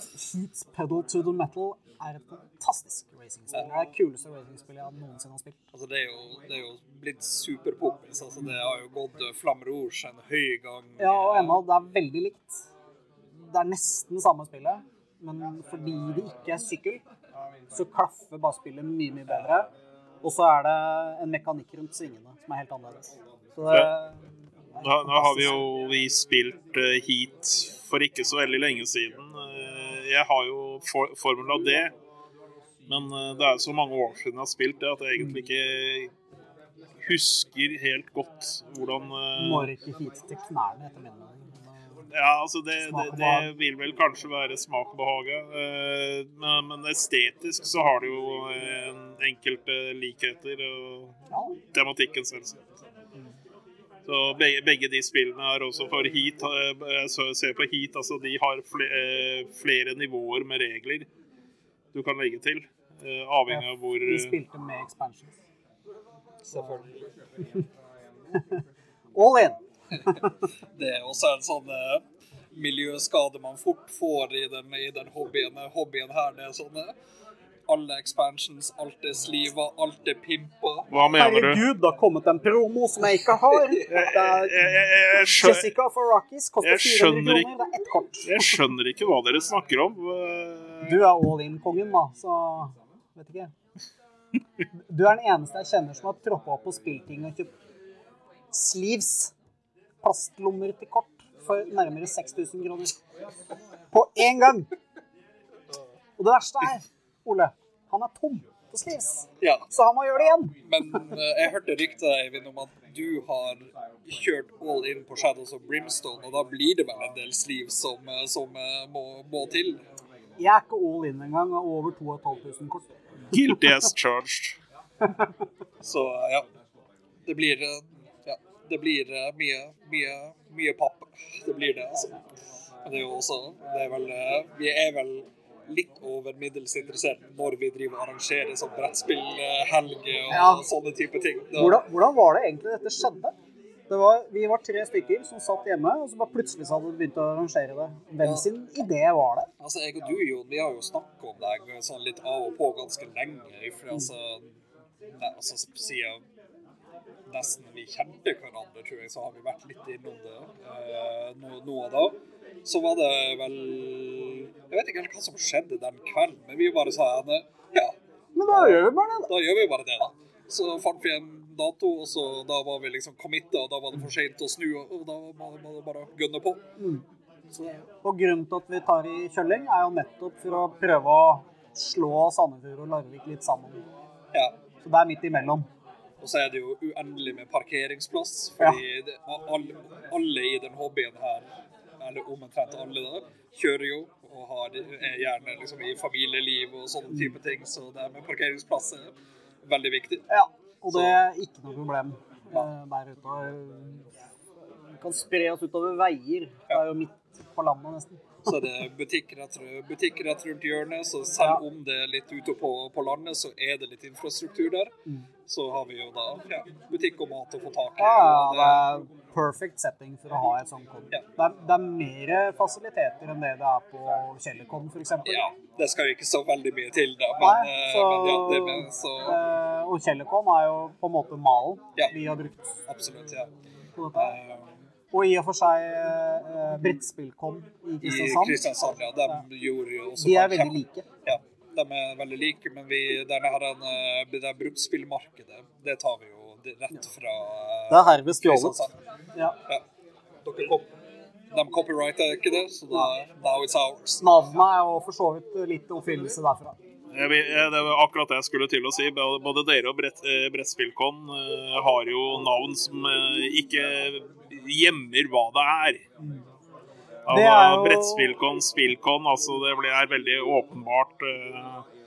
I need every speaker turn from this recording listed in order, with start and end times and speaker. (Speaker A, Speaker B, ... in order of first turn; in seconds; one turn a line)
Speaker A: 0.1-5.6
Speaker B: 5.7-11.6
Speaker A: 11.0-12.7
Speaker A: 13.3-17.0
Speaker A: 17.7-19.7
Speaker A: 20.2-24.2
Speaker A: 24.8-25.5
Speaker C: 24.8-31.9
Speaker C: 32.9-36.1
Speaker C: 37.0-39.7
Speaker A: 39.4-41.8
Speaker C: 42.1-51.2
Speaker A: 42.8-43.5
Speaker C: 51.7-52.6
Speaker C: 54.0-61.1
Speaker C: 61.9-64.4
Speaker A: 63.5-65.3
Speaker B: 66.5-66.9
Speaker A: 69.1-70.2
Speaker B: 70.7-76.9
Speaker B: 77.7-80.9
Speaker C: 80.9-81.6
Speaker A: 81.1-88.6
Speaker B: 83.5-83.8
Speaker C: 83.9-85.7
Speaker C: 86.6-87.5
Speaker C: 88.2-91.0
Speaker A: 90.8-93.5
Speaker A: 94.8-97.5
Speaker A: 98.5-99.3
Speaker A: 100.0-103.0
Speaker A: 103.9-104.7
Speaker A: 106.2-110.5
Speaker B: 109.4-109.7
Speaker B: 110.6-119.8
Speaker A: 120.4-122.9
Speaker C: 123.3-124.6
Speaker B: 125.8-126.5
Speaker B: 127.2-132.1
Speaker B: 132.8-141.8
Speaker A: 140.3-140.7
Speaker A: 141.5-143.3
Speaker A: 143.9-149.5
Speaker B: 148.2-148.5
Speaker B: 149.6-154.5
Speaker B: 155.1-156.2
Speaker B: 157.3-167.9
Speaker A: 168.3-169.3
Speaker B: 168.5-176.6
Speaker A: 176.8-177.0
Speaker A: 178.0-183.8
Speaker A: 184.8-185.7
Speaker B: 186.2-191.5
Speaker B: 192.0-200.2
Speaker A: 197.1-197.3
Speaker A: 200.3-204.1
Speaker B: 200.9-201.2
Speaker A: 205.0-208.5
Speaker B: 208.4-214.9
Speaker B: 215.5-218.9
Speaker A: 218.0-225.5
Speaker B: 225.2-229.4
Speaker A: 227.4-232.8
Speaker B: 232.9-233.5
Speaker A: 234.0-234.4
Speaker B: 234.1-234.7
Speaker A: 235.1-238.6
Speaker B: 238.0-249.0
Speaker A: 240.2-241.0
Speaker A: 247.9-248.8
Speaker B: 250.4-250.9
Speaker B: 251.5-254.2
Speaker A: 254.2-256.8
Speaker C: 257.1-266.0
Speaker C: 267.3-271.8
Speaker A: 267.3-268.3